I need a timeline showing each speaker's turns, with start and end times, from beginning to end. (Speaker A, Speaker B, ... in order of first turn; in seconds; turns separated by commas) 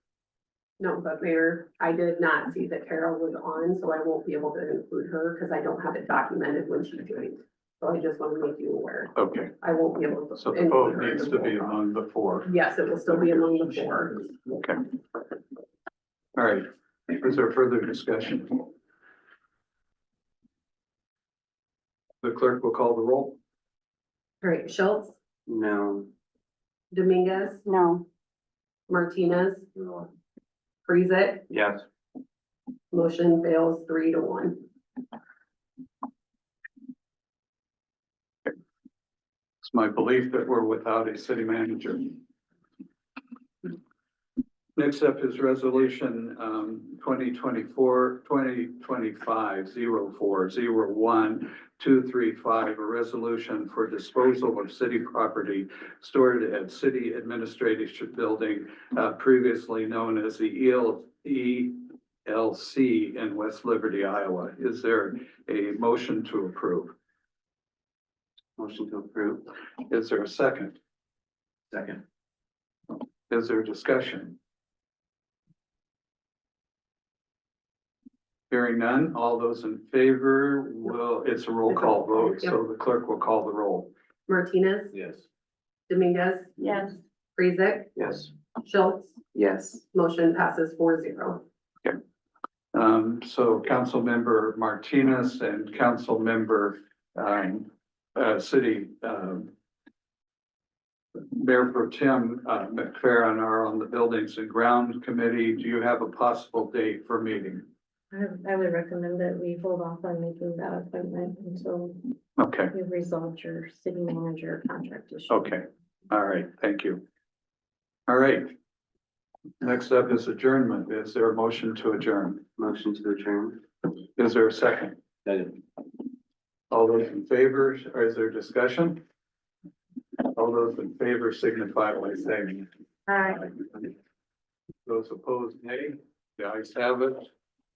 Speaker A: 0.8-11.6, Speaker B: 9.2-9.6, Speaker B: 10.4-12.5, Speaker A: 12.4-14.3, Speaker B: 14.5-14.8, Speaker B: 16.4-18.7, Speaker B: 22.2-23.4, Speaker A: 24.4-25.2, Speaker C: 25.5-26.1, Speaker A: 26.9-27.7, Speaker A: 28.9-29.7, Speaker C: 29.8-30.0, Speaker A: 30.9-31.5, Speaker C: 31.5-31.8, Speaker A: 32.9-34.6, Speaker B: 39.6-42.2, Speaker B: 44.8-67.0, Speaker C: 68.6-69.5, Speaker B: 69.9-70.8, Speaker C: 71.7-72.0, Speaker B: 73.3-74.4, Speaker B: 78.5-83.9, Speaker A: 81.7-82.6, Speaker A: 84.3-85.0, Speaker C: 84.9-85.2, Speaker A: 85.9-88.0, Speaker C: 88.0-88.3, Speaker A: 88.6-89.2, Speaker C: 89.3-89.8, Speaker A: 89.9-91.4, Speaker B: 92.7-99.5, Speaker B: 101.3-107.7, Speaker D: 108.1-112.1, Speaker B: 112.4-112.7, Speaker D: 112.7-115.5, Speaker B: 115.3-117.0, Speaker B: 118.1-118.5, Speaker B: 119.6-122.4, Speaker C: 122.6-123.6, Speaker B: 124.2-125.0, Speaker C: 125.2-125.6, Speaker B: 126.7-129.0, Speaker B: 130.3-132.7, Speaker D: 133.1-133.4, Speaker B: 133.2-133.9, Speaker B: 134.9-137.3